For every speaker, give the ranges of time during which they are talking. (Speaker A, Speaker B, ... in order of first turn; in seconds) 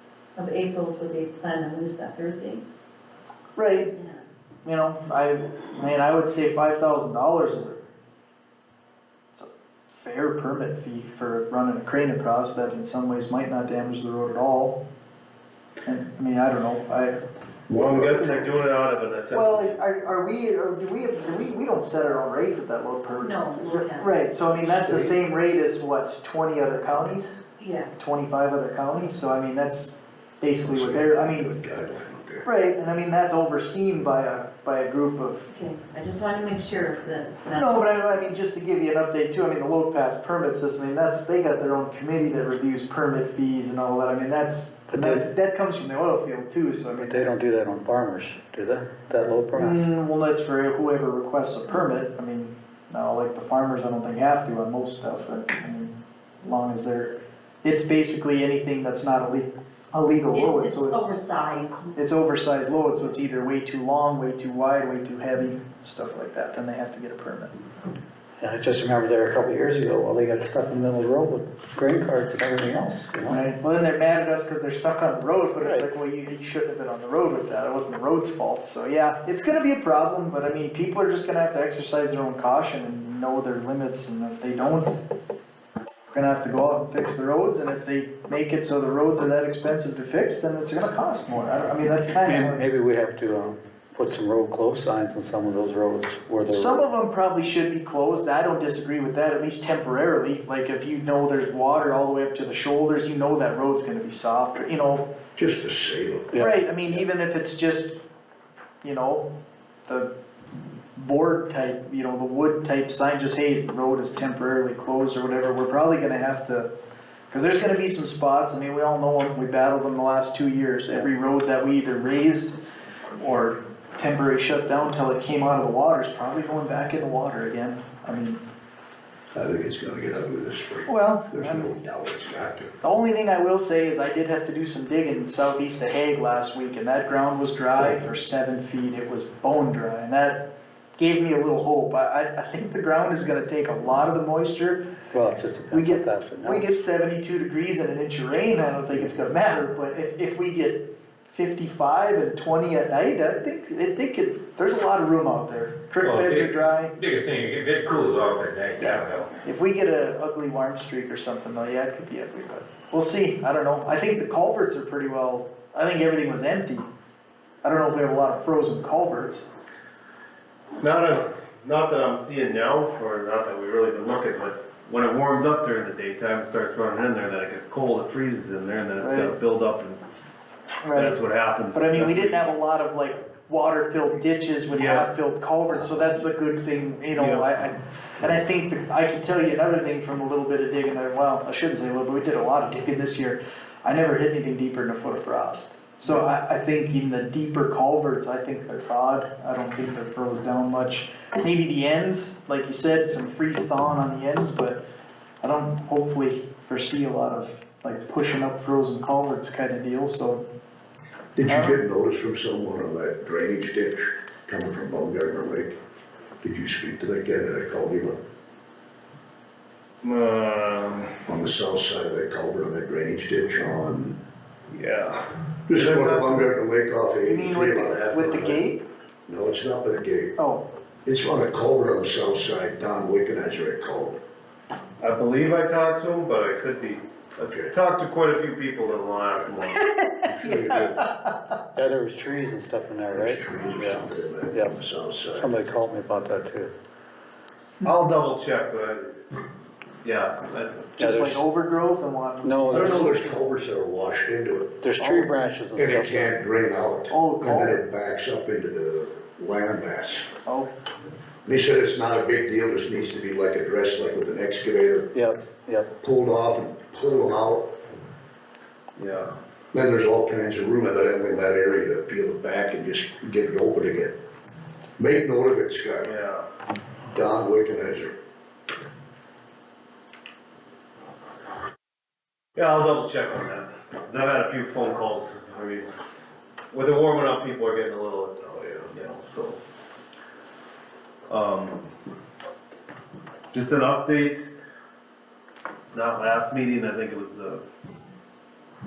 Speaker A: 0.4-2.6, 3.9-4.2, 23.2-24.9, 27.6-27.9, 35.5-38.3, 60.3-62.0
Speaker B: 3.6-3.9, 4.7-7.8, 9.3-14.8, 15.8-17.2, 19.3-27.4, 28.0-31.5, 32.4-35.5, 37.5-47.3, 49.5-61.1, 62.0-67.6, 73.3-85.0, 86.1-92.7, 96.5-105.1, 106.4-108.0, 108.8-109.3, 111.0-116.7, 117.3-122.6, 123.2-128.4, 130.9-131.7, 132.8-144.9, 145.7-156.9, 159.4-166.9, 167.6-169.5, 179.0-179.4, 180.8-181.2, 181.7-204.8, 205.4-210.4, 211.5-211.8, 227.2-228.8, 230.4-230.6, 239.9-241.4, 251.0-253.0, 255.0-255.3, 257.1-257.8, 260.5-260.7
Speaker C: 17.7-19.8, 170.8-180.0, 180.9-182.5, 184.7-185.1, 187.1-187.5, 220.0-221.2, 224.7-226.4, 235.0-237.0, 237.7-241.0, 247.8-249.4, 250.0-250.9, 269.0-269.3, 276.0-276.5, 282.6-285.9, 286.7-289.6, 291.3-291.9, 293.5-294.4, 295.9-297.6
Speaker D: 17.8-18.4, 24.7-25.1, 30.6-32.5, 105.4-106.3, 129.3-132.7, 211.4-215.7, 216.4-218.2, 221.3-224.2, 225.7-228.6, 229.3-230.4, 231.1-234.2, 237.4-237.7, 240.3-240.9, 243.1-245.5, 252.7-254.8, 255.8-260.3, 261.4-265.1, 266.0-267.7, 269.7-274.2, 275.0-276.1, 277.1-278.1, 288.4-288.9
Speaker E: 44.9-45.3, 46.9-49.9, 68.4-73.4, 75.6-76.0, 92.2-96.8, 106.3-106.6, 145.1-146.8, 241.8-244.8, 245.3-246.7, 251.0-251.4, 252.4-253.1, 254.8-256.4, 265.1-265.9
Speaker F: 156.0-159.3